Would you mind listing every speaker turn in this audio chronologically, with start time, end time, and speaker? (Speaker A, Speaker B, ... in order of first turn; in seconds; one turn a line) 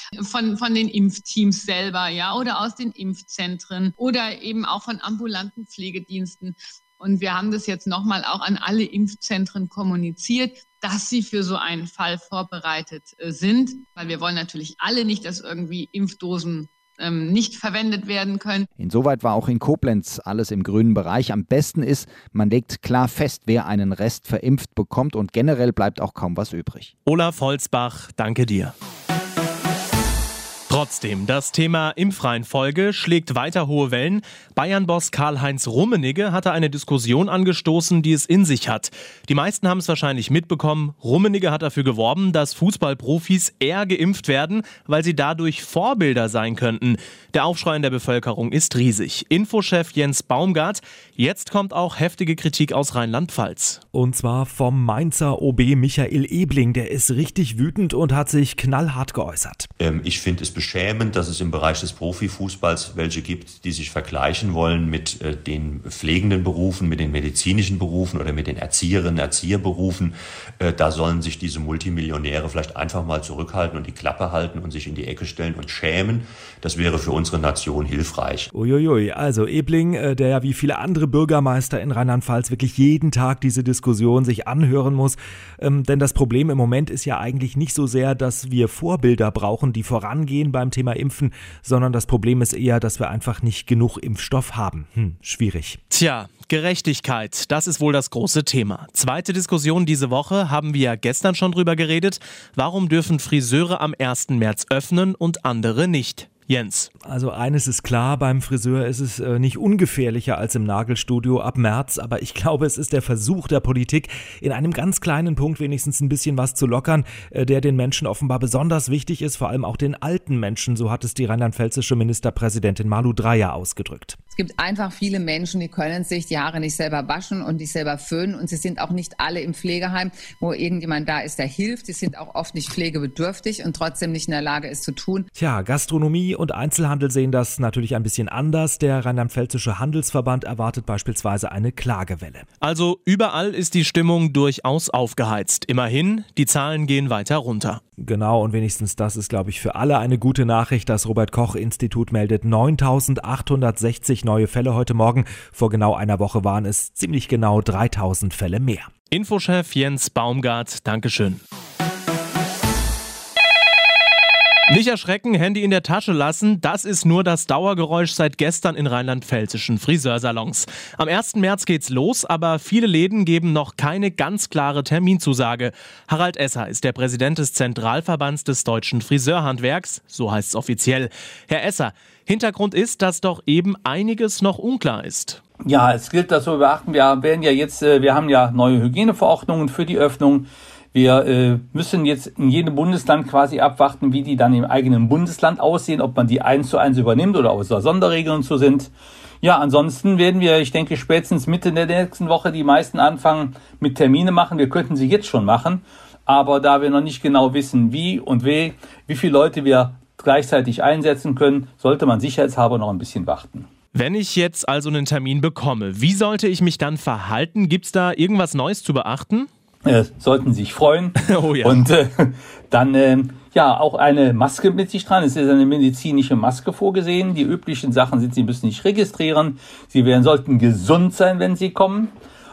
Speaker A: 0.3-18.6
Speaker B: 18.8-26.9
Speaker C: 27.1-28.7
Speaker C: 30.7-53.8
Speaker D: 53.9-59.7
Speaker E: 59.8-78.5
Speaker D: 78.5-95.8
Speaker C: 95.9-106.9
Speaker D: 107.1-124.2
Speaker F: 124.3-135.3
Speaker D: 135.3-142.4
Speaker C: 142.6-147.8
Speaker D: 148.0-158.9
Speaker C: 159.1-161.4
Speaker C: 164.7-185.4
Speaker G: 185.6-198.9
Speaker G: 199.4-213.7
Speaker C: 213.9-219.5
Speaker G: 219.8-232.1
Speaker C: 221.3-221.8